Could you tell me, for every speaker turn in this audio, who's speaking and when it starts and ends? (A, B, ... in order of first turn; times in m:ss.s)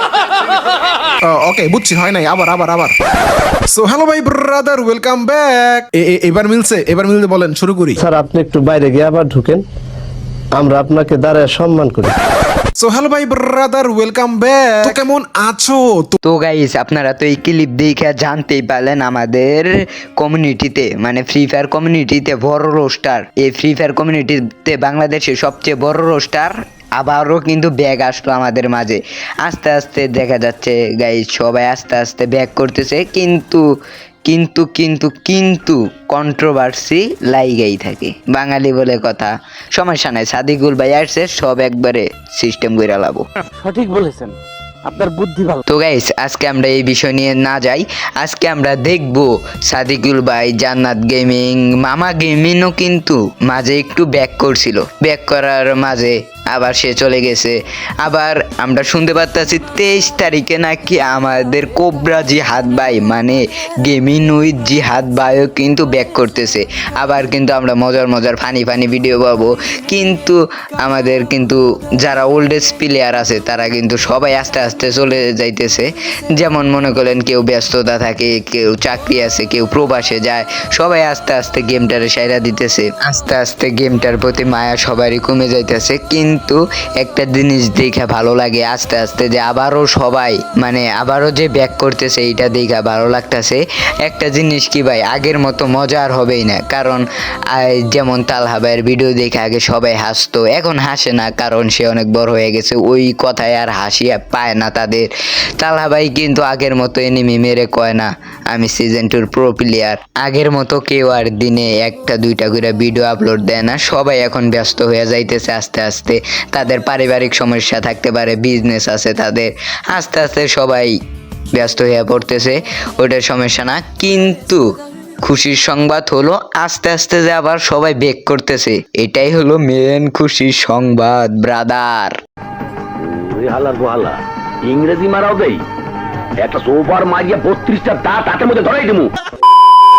0:01.3-0:03.0 A
0:03.7-0:08.0 A
0:08.0-0:09.6 B
0:10.6-0:12.1 B
0:12.8-0:16.2 A
0:16.2-0:33.6 C
0:34.3-0:43.2 C
0:43.6-0:45.6 D
0:45.7-2:00.9 C
2:01.5-2:04.7 C
2:05.2-2:12.2 C
2:13.0-2:15.6 E
2:16.4-2:19.1 E